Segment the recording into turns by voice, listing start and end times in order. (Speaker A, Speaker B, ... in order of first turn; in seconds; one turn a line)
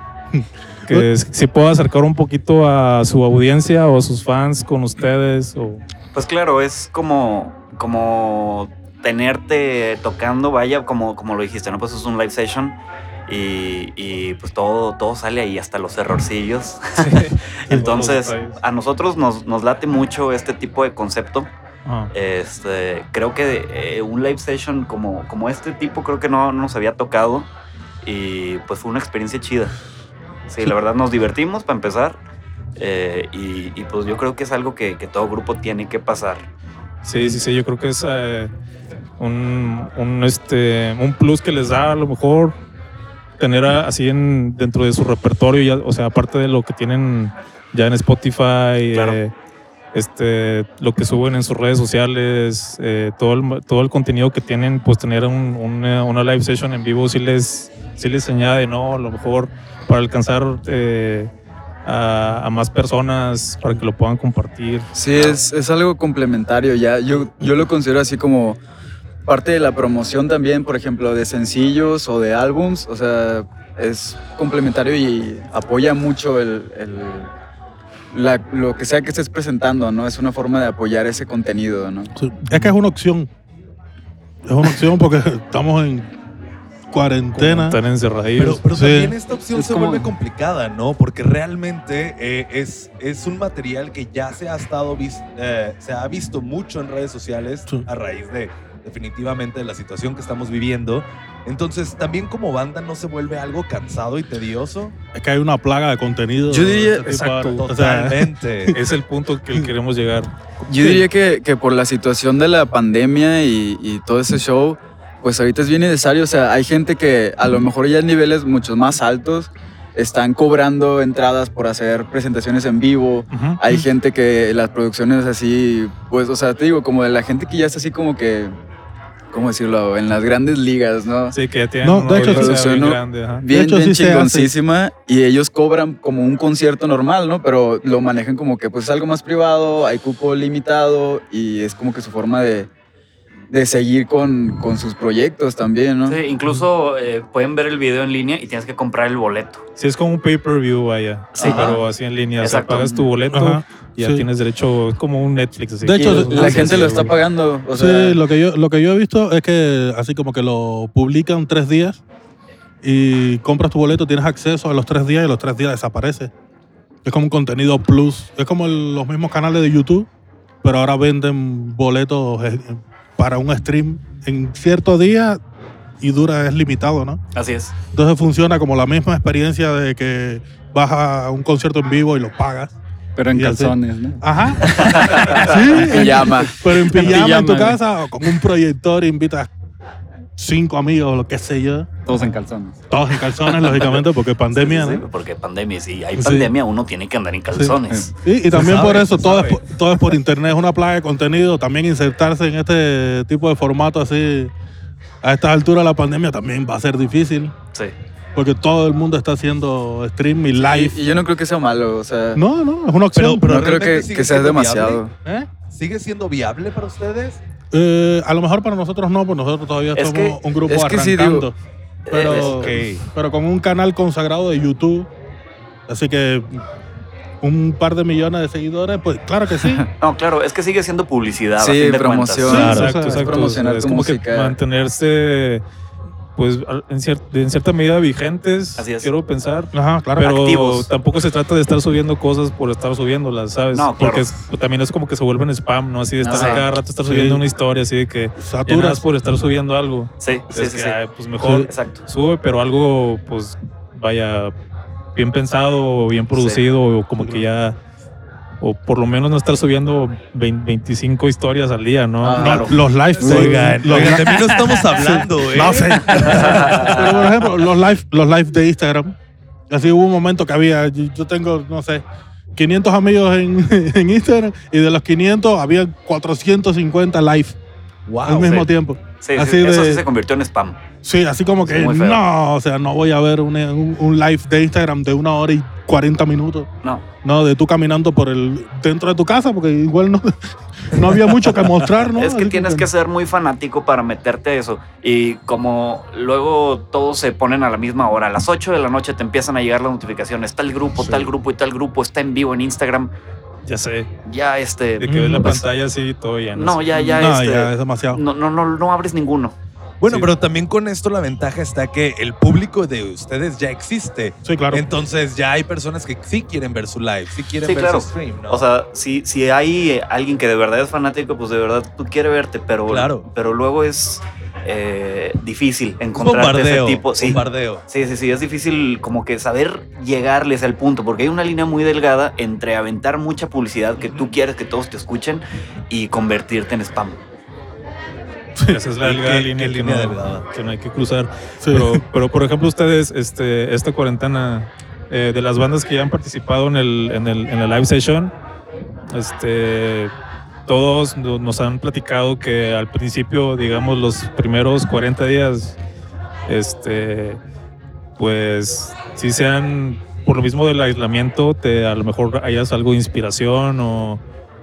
Speaker A: 0.3-1.1
Speaker B: 0.9-5.8
Speaker C: 6.1-21.5
Speaker B: 17.0-18.6
Speaker B: 21.9-22.1
Speaker C: 22.1-27.5
Speaker C: 28.0-29.7
Speaker C: 30.5-32.2
Speaker C: 32.8-36.5
Speaker B: 37.0-38.5
Speaker B: 39.2-42.5
Speaker B: 43.4-49.3
Speaker C: 48.9-49.2
Speaker B: 49.9-61.3
Speaker B: 61.8-64.9
Speaker D: 64.9-68.6
Speaker D: 69.2-77.3
Speaker D: 78.1-82.1
Speaker A: 82.2-83.3
Speaker B: 82.5-82.7
Speaker A: 84.4-86.1
Speaker A: 86.9-87.8
Speaker B: 87.3-88.6
Speaker E: 88.4-105.0
Speaker A: 88.7-89.2
Speaker F: 89.5-90.1
Speaker A: 105.1-108.8
Speaker D: 106.5-107.1
Speaker B: 107.0-107.6
Speaker E: 107.5-108.8
Speaker B: 108.7-111.0
Speaker D: 110.7-128.5
Speaker B: 123.3-123.6
Speaker D: 129.3-131.3
Speaker B: 131.3-133.4
Speaker A: 131.8-132.8
Speaker D: 132.1-142.7
Speaker A: 133.5-134.5
Speaker D: 143.5-146.2
Speaker C: 146.1-149.6
Speaker B: 149.8-157.1
Speaker C: 151.3-151.8
Speaker D: 151.4-151.8
Speaker C: 152.4-152.9
Speaker D: 152.7-153.1
Speaker A: 153.3-154.3
Speaker A: 155.8-157.0
Speaker D: 155.9-158.2
Speaker A: 157.7-162.0
Speaker A: 162.8-166.3
Speaker A: 167.0-170.1
Speaker A: 170.6-175.4
Speaker A: 176.0-177.2
Speaker C: 177.3-177.7
Speaker A: 177.9-182.7
Speaker F: 183.2-184.2
Speaker A: 183.3-189.5
Speaker C: 184.6-185.6
Speaker D: 185.6-187.8
Speaker F: 186.9-187.8
Speaker A: 190.4-192.1
Speaker F: 192.1-192.8
Speaker A: 192.9-195.0
Speaker C: 193.4-198.1
Speaker A: 196.2-196.5
Speaker A: 197.5-204.5
Speaker E: 198.5-199.2
Speaker B: 199.2-199.6
Speaker A: 205.2-207.5
Speaker A: 208.3-211.0
Speaker D: 210.5-212.4
Speaker A: 212.3-213.7
Speaker E: 213.1-215.0
Speaker D: 213.4-215.1
Speaker E: 215.7-217.4
Speaker A: 217.7-221.6
Speaker C: 219.9-220.4
Speaker D: 220.7-221.5
Speaker C: 222.1-222.7
Speaker A: 222.1-225.1
Speaker E: 222.2-223.1
Speaker A: 225.9-226.6
Speaker A: 227.4-229.9
Speaker C: 230.0-232.6
Speaker D: 231.6-234.6
Speaker A: 232.4-233.3
Speaker E: 232.5-232.9
Speaker B: 232.5-235.6
Speaker B: 236.3-254.5
Speaker C: 238.8-239.1
Speaker A: 239.7-240.3
Speaker C: 240.2-240.9
Speaker C: 243.7-244.3
Speaker D: 246.2-246.6
Speaker C: 246.3-246.6
Speaker A: 246.9-247.4
Speaker A: 248.4-249.0
Speaker C: 250.2-251.0
Speaker A: 251.4-251.7
Speaker C: 251.7-252.0
Speaker B: 255.1-257.8
Speaker C: 256.3-256.6
Speaker A: 257.2-257.5
Speaker B: 258.6-264.1
Speaker D: 262.2-262.8
Speaker C: 262.3-262.7
Speaker A: 262.4-264.4
Speaker E: 263.2-267.1
Speaker A: 264.9-269.1
Speaker C: 266.1-267.2
Speaker A: 269.7-272.0
Speaker A: 272.5-277.6
Speaker E: 278.1-278.7
Speaker A: 278.2-280.0
Speaker C: 279.2-280.8
Speaker A: 281.0-286.7
Speaker C: 281.6-282.2
Speaker A: 287.2-292.9
Speaker C: 292.1-303.1
Speaker B: 303.6-304.1
Speaker C: 304.2-305.6
Speaker B: 305.0-306.8
Speaker A: 305.0-305.6
Speaker C: 306.5-309.5
Speaker A: 307.0-308.2
Speaker E: 310.0-318.6
Speaker A: 314.4-314.8
Speaker C: 317.6-337.2
Speaker E: 322.9-323.3
Speaker E: 326.1-327.8
Speaker A: 338.6-338.8
Speaker B: 338.7-348.3
Speaker E: 339.0-340.4
Speaker A: 341.6-342.0
Speaker B: 349.1-350.1
Speaker B: 350.7-355.8
Speaker B: 356.5-357.4
Speaker B: 358.2-364.2